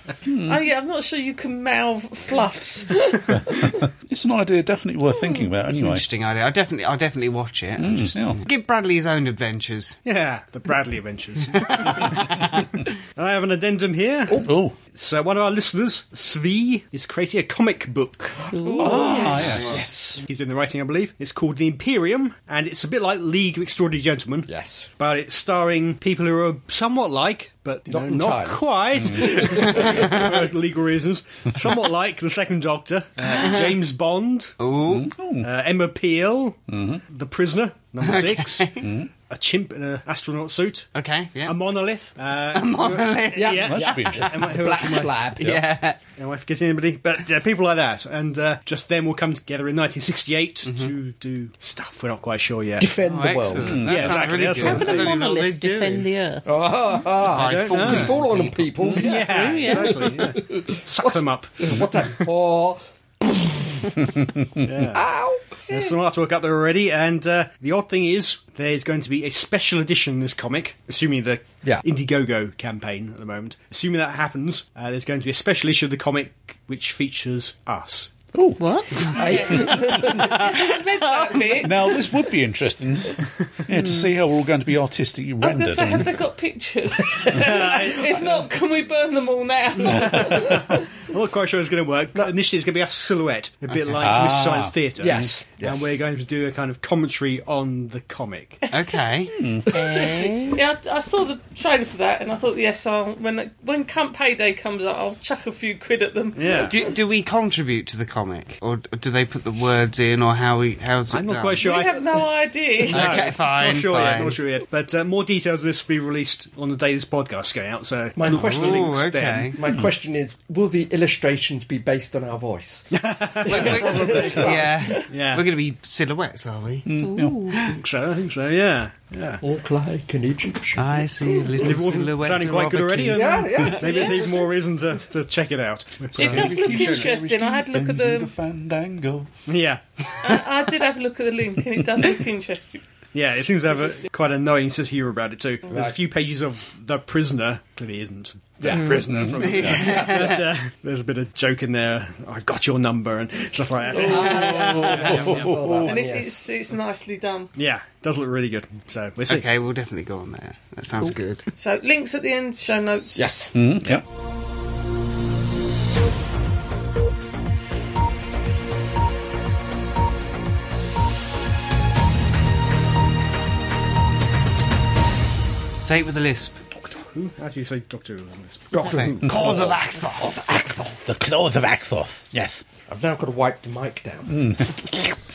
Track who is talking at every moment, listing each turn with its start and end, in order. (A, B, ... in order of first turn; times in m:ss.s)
0:00.3-0:00.6 A
0:00.4-0:03.8 B
0:03.3-0:06.0 A
0:05.2-0:05.5 B
0:05.7-0:10.0 C
0:07.8-0:08.4 A
0:10.0-0:12.5 D
0:11.7-0:12.1 C
0:13.2-0:18.5 D
0:14.4-0:14.8 A
0:18.5-0:19.2 E
0:18.6-0:20.2 F
0:18.7-0:19.4 B
0:18.8-0:19.8 A
0:19.3-0:19.8 C
0:19.3-0:34.5 D
0:24.5-0:24.9 F
0:27.9-0:30.1 F
0:29.8-0:30.1 C
0:33.3-0:33.6 C
0:34.6-0:35.1 C
0:34.9-0:35.5 A
0:35.4-0:40.9 D
0:36.7-0:37.0 A
0:38.0-0:38.8 C
0:38.8-0:39.1 A
0:40.9-0:41.6 C
0:41.4-0:45.3 D
0:42.5-0:44.2 C
0:43.3-0:45.6 F
0:43.6-0:44.4 A
0:45.4-0:46.0 C
0:46.0-0:53.0 D
0:50.6-0:50.9 C
0:52.8-0:54.1 F
0:53.0-0:56.1 C
0:53.6-0:54.3 A
0:53.6-0:55.1 D
0:54.6-0:56.5 E
0:56.4-1:04.0 F
0:57.2-0:58.6 C
0:57.3-0:58.4 D
0:58.9-1:01.8 D
0:59.0-1:00.2 E
1:04.2-1:04.7 A
1:04.6-1:05.1 D
1:04.9-1:05.6 F
1:05.6-1:18.2 D
1:18.3-1:18.6 A
1:18.6-1:19.1 E
1:19.1-1:22.1 B
1:19.2-1:20.4 F
1:20.1-1:21.4 C
1:21.6-1:26.1 A
1:23.8-1:24.0 E
1:25.4-1:30.9 B
1:27.3-1:28.4 D
1:29.8-1:38.6 D
1:33.7-1:34.3 C
1:34.0-1:35.3 A
1:35.0-1:35.9 F
1:38.6-1:46.7 B
1:38.7-1:39.3 C
1:39.4-1:39.7 A
1:39.7-1:40.6 E
1:46.4-1:46.7 D
1:46.6-1:51.8 C
1:51.1-1:52.1 D
1:51.6-1:53.2 B
1:52.8-1:59.6 D
1:52.9-1:54.4 C
1:58.1-2:02.9 F
1:58.3-1:59.6 C
2:02.9-2:05.5 D
2:03.4-2:04.7 F
2:03.4-2:06.9 C
2:06.8-2:07.6 A
2:07.0-2:07.6 E
2:07.6-2:09.4 D
2:09.4-2:11.0 F
2:10.8-2:13.4 C
2:11.6-2:17.1 D
2:13.1-2:14.3 F
2:13.8-2:14.4 B
2:16.1-2:19.3 A
2:16.2-2:18.3 B
2:19.5-2:19.8 D
2:20.2-2:22.8 B
2:23.1-2:35.4 D
2:25.7-2:26.0 F
2:28.6-2:29.1 F
2:29.1-2:29.9 A
2:29.4-2:30.4 C
2:34.0-2:36.4 F
2:34.0-2:35.9 A
2:34.0-2:34.6 B
2:35.8-2:37.5 B
2:37.6-2:39.5 D
2:39.3-2:41.4 C
2:41.6-2:43.3 B
2:43.2-2:43.7 F
2:43.5-2:44.0 A
2:55.8-2:56.6 C
2:56.8-2:58.8 D
2:58.7-3:01.0 F
2:58.8-3:00.7 C
2:59.3-2:59.6 A
3:01.0-3:02.6 A
3:02.9-3:04.4 F
3:04.3-3:04.8 A